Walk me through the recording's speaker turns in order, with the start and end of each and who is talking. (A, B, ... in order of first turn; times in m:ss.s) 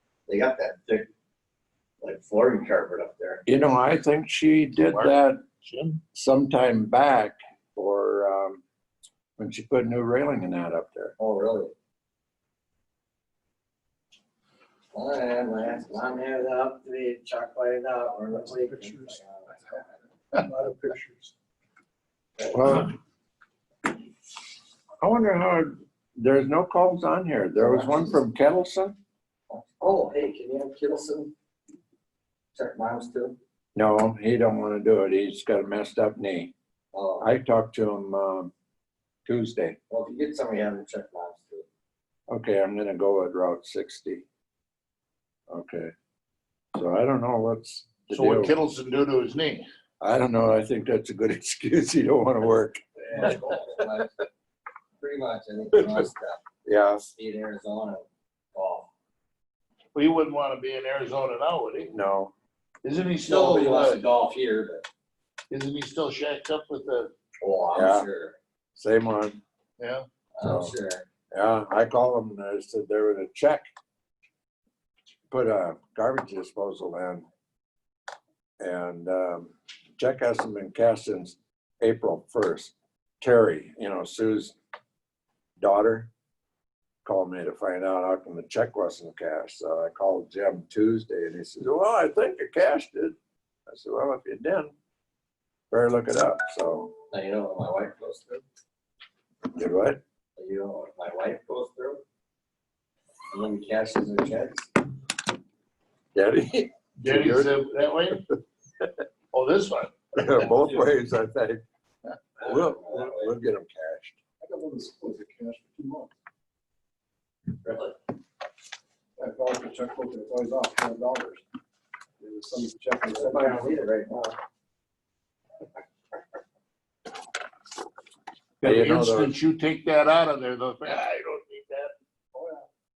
0:00.3-0:01.1 A
0:02.0-0:03.6 A
0:03.5-0:05.4 B
0:04.9-0:06.0 C
0:06.1-0:08.6 B
0:09.4-0:11.2 B
0:11.2-0:11.7 A
0:14.9-0:20.0 A
0:18.4-0:19.2 D
0:20.3-0:21.3 D
0:22.4-0:22.6 A
0:22.5-0:23.0 B
0:25.0-0:29.0 B
0:27.6-0:28.2 A
0:29.5-0:31.3 A
0:32.5-0:33.4 A
0:33.8-0:36.5 B
0:36.9-0:37.3 A
0:37.2-0:38.5 B
0:39.3-0:39.8 B
0:39.9-0:41.7 A
0:42.3-0:44.2 B
0:45.5-0:45.9 B
0:46.8-0:48.5 B
0:48.1-0:49.7 C
0:50.0-0:53.4 B
0:53.1-0:54.2 A
0:55.0-0:56.4 A
0:56.6-0:57.1 B
0:57.1-0:58.9 A
1:00.0-1:01.9 C
1:01.9-1:02.3 B
1:02.8-1:04.1 C
1:03.2-1:04.9 A
1:05.5-1:07.1 C
1:07.4-1:08.4 A
1:07.7-1:08.1 B
1:08.8-1:09.4 B
1:09.8-1:10.1 C
1:10.4-1:11.1 A
1:10.4-1:10.7 B
1:11.3-1:13.6 B
1:15.3-1:17.2 B
1:18.6-1:24.6 B
1:25.6-1:26.1 B
1:27.0-1:33.2 B
1:33.7-1:34.7 B
1:35.7-1:36.9 B
1:37.1-1:38.4 A
1:39.5-1:40.0 B
1:40.4-1:42.0 A
1:43.3-1:44.7 A
1:46.2-1:48.2 B
1:47.0-1:48.2 C
1:49.3-1:50.0 C
1:50.2-1:51.6 B
1:52.4-1:53.3 A
1:52.4-1:54.2 B
1:54.4-1:56.1 D
1:57.6-1:58.0 A
1:59.2-2:01.4 D
2:02.2-2:03.7 D
2:03.1-2:04.4 A
2:08.6-2:11.9 C
2:08.6-2:09.3 B
2:12.3-2:12.7 D